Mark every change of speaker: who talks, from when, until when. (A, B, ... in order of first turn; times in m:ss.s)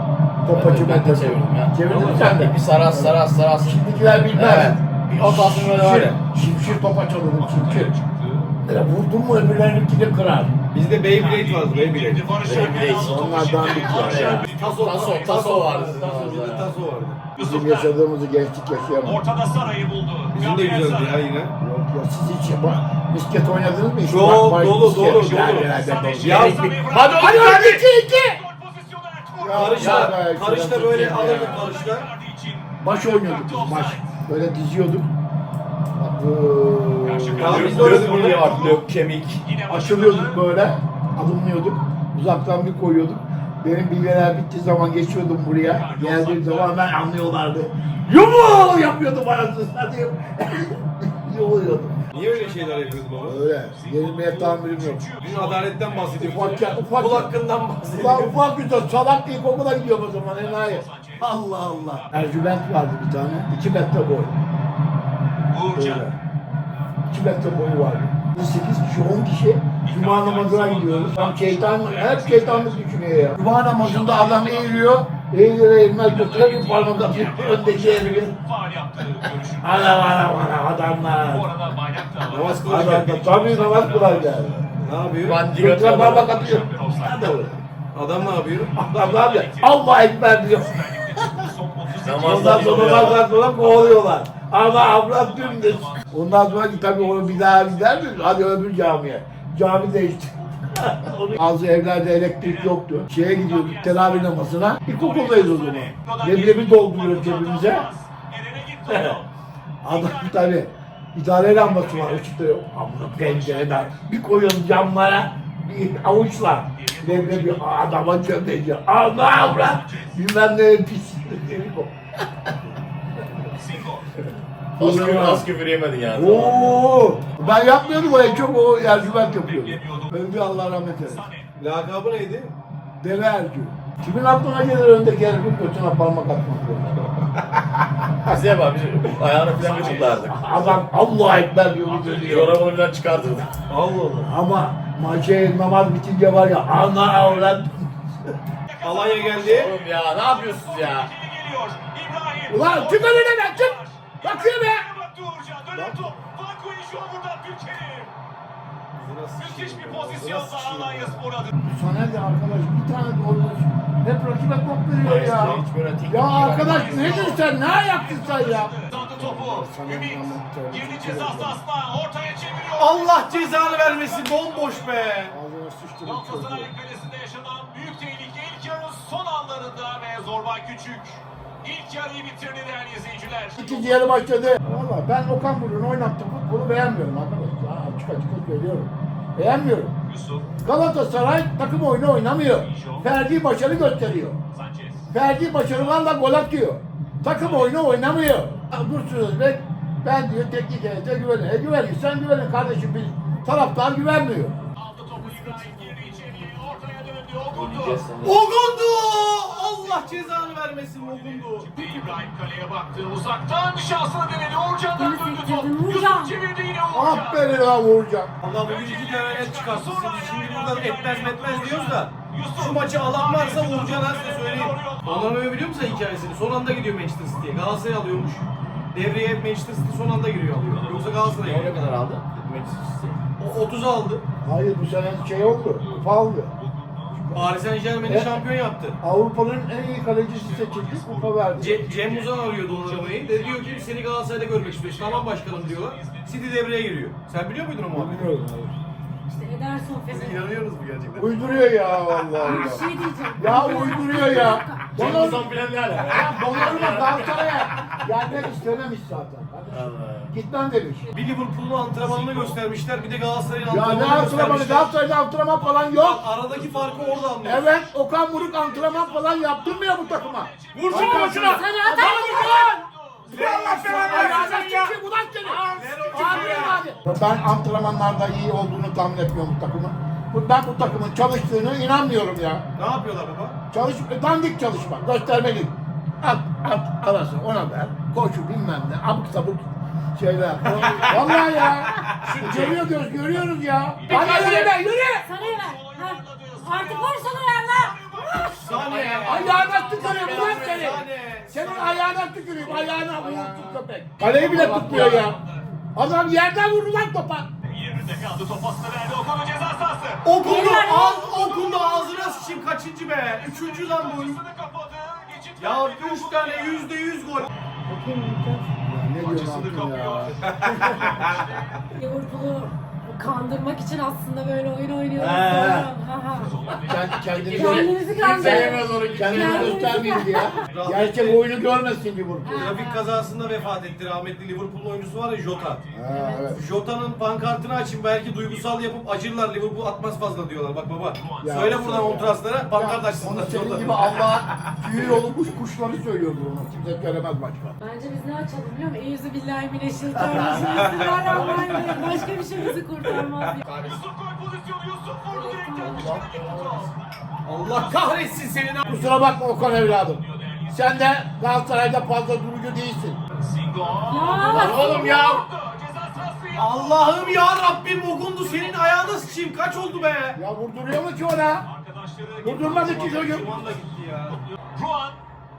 0:00.4-0:07.9 A
0:00.5-0:03.8 B
0:01.9-0:02.2 C
0:04.3-0:06.2 B
0:07.4-0:08.5 D
0:08.6-0:10.6 A
0:10.7-0:12.3 C
0:11.0-0:15.4 D
0:12.4-0:13.3 B
0:12.9-0:14.5 A
0:13.8-0:16.7 B
0:14.0-0:17.3 C
0:17.3-0:17.9 D
0:17.4-0:19.2 A
0:19.0-0:21.3 D
0:20.3-0:21.5 C
0:21.6-0:26.6 A
0:24.1-0:25.7 C
0:25.0-0:30.1 D
0:26.2-0:26.6 C
0:26.4-0:27.8 B
0:27.2-0:28.4 A
0:29.4-0:31.4 A
0:29.5-0:32.1 C
0:29.8-0:31.6 B
0:31.3-0:34.1 D
0:32.8-0:35.1 A
0:36.0-0:38.1 A
0:37.0-0:38.8 D
0:37.4-0:38.5 C
0:37.5-0:39.4 B
0:39.4-0:40.4 D
0:39.7-0:52.1 A
0:45.7-0:46.8 D
0:52.1-0:53.4 C
0:52.1-0:56.5 D
0:53.2-0:55.1 A
0:55.2-0:58.4 C
0:56.2-0:57.3 A
0:57.9-1:00.9 A
1:00.4-1:02.1 D
1:01.2-1:02.1 C
1:02.1-1:04.4 A
1:05.5-1:06.1 D
1:05.8-1:06.2 A
1:07.1-1:18.4 A
1:09.8-1:12.8 D
1:13.8-1:14.9 D
1:16.1-1:20.1 D
1:19.6-1:21.5 A
1:21.2-1:24.5 D
1:22.3-1:23.1 C
1:22.7-1:24.6 A
1:24.8-1:25.4 C
1:25.2-1:26.6 B
1:25.5-1:27.5 A
1:26.1-1:27.5 D
1:27.9-1:28.8 C
1:28.7-1:31.5 A
1:28.9-1:29.8 D
1:30.6-1:34.2 D
1:32.0-1:33.2 B
1:32.2-1:47.9 A
1:34.7-1:38.2 D
1:42.4-1:42.8 D
1:43.3-1:44.4 D
1:44.9-1:49.3 D
1:48.9-1:49.2 A
1:49.8-2:01.9 A
1:49.9-1:50.5 D
1:51.6-1:52.3 D
1:53.2-1:54.0 D
1:56.8-1:58.1 D
1:59.2-2:00.2 D
2:03.6-2:04.1 D
2:04.8-2:05.5 A
2:04.8-2:06.8 B
2:06.1-2:11.2 A
2:07.4-2:10.2 D
2:11.0-2:11.5 D
2:11.6-2:12.6 C
2:13.0-2:17.0 A
2:18.3-2:20.4 B
2:19.5-2:20.8 D
2:20.3-2:22.6 A
2:21.9-2:22.4 D
2:22.3-2:23.5 B
2:23.7-2:24.3 C
2:24.2-2:28.1 A
2:28.7-2:38.1 D
2:28.8-2:29.7 C
2:29.4-2:31.1 B
2:32.5-2:34.9 A
2:35.8-2:36.2 A
2:38.9-2:41.2 C
2:39.4-2:41.5 D
2:41.6-2:51.6 A
2:45.0-2:47.4 B
2:46.6-2:55.2 D
2:52.8-2:55.4 C
2:55.3-2:56.7 A
2:56.0-3:04.0 D
3:03.6-3:10.0 A
3:10.1-3:10.5 D
3:10.6-3:14.4 A
3:12.6-3:13.1 D
3:14.5-3:15.1 D
3:15.1-3:24.6 A
3:15.7-3:16.0 D
3:17.3-3:17.8 D
3:24.8-3:28.1 D
3:25.2-3:26.0 E
3:27.5-3:28.4 B
3:28.2-3:31.7 C
3:29.8-3:37.4 D
3:31.9-3:32.3 E
3:34.9-3:36.4 E
3:36.9-3:38.3 A
3:38.4-3:51.9 C
3:38.6-3:45.4 D
3:50.5-3:51.4 D
3:51.2-3:53.2 B
3:53.4-3:54.2 C
3:54.4-3:56.5 A
3:55.2-3:57.5 D
3:57.3-3:59.0 C
3:58.0-3:58.4 A
3:59.0-4:01.8 A
4:00.3-4:06.4 D
4:01.6-4:08.3 C
4:07.9-4:08.8 A
4:09.3-4:10.5 E
4:10.1-4:10.5 C
4:10.4-4:11.3 B
4:11.2-4:15.5 A
4:12.3-4:15.0 E
4:14.9-4:18.4 B
4:16.1-4:21.1 A
4:19.7-4:20.3 B
4:21.2-4:24.9 C
4:22.0-4:22.6 D
4:23.7-4:26.3 A
4:25.9-4:27.7 C
4:26.6-4:27.3 D
4:27.4-4:42.7 A
4:28.1-4:31.3 D
4:30.7-4:31.6 B
4:30.9-4:32.7 E
4:31.9-4:33.7 D
4:33.3-4:34.6 C
4:33.4-4:36.8 B
4:35.7-4:36.8 C
4:36.1-4:37.0 D
4:42.8-4:43.6 C
4:43.7-4:55.3 A
4:50.7-4:51.2 B
4:52.2-4:52.8 B
4:54.0-5:00.1 D
4:54.1-4:54.8 B
4:54.1-4:58.7 E
4:58.6-5:02.2 C
4:58.7-5:01.0 B
4:59.2-5:05.4 A
4:59.6-5:00.1 E
5:02.6-5:05.4 B
5:04.3-5:05.6 D
5:06.0-5:07.5 A
5:07.6-5:10.4 D
5:10.2-5:14.4 C
5:10.4-5:11.4 E
5:11.3-5:12.6 D
5:13.3-5:16.9 D
5:15.6-5:17.5 C
5:17.9-5:18.7 E
5:18.8-5:20.4 A
5:19.2-5:21.8 D
5:20.5-5:21.4 C
5:20.7-5:21.1 E
5:21.9-5:26.6 E
5:25.2-5:25.9 C
5:26.4-5:27.8 D
5:26.8-5:32.8 A
5:27.0-5:29.8 B
5:27.4-5:30.6 E
5:30.7-5:31.4 C
5:32.4-5:33.1 E
5:32.6-5:35.8 C
5:33.6-5:33.9 D
5:35.9-5:36.6 A
5:36.1-5:36.5 E
5:36.5-5:44.4 C
5:38.5-5:38.9 D
5:41.2-5:41.5 D
5:41.4-5:47.8 A
5:47.8-5:53.7 E
5:50.3-5:52.0 C
5:50.4-5:50.7 A
5:53.1-5:53.6 C
5:53.6-5:54.0 B
5:53.8-5:57.0 D
5:55.3-5:56.2 E
5:55.8-5:56.9 B
5:57.4-5:59.0 C
5:57.8-5:58.1 D
5:58.8-6:03.2 A
6:00.2-6:01.0 D
6:03.4-6:07.7 D
6:04.1-6:05.4 E
6:04.5-6:05.5 B
6:06.6-6:10.4 C
6:08.4-6:10.1 D
6:10.4-6:11.7 A
6:11.7-6:13.8 D
6:12.4-6:13.6 A
6:12.7-6:14.4 C
6:14.6-6:15.2 D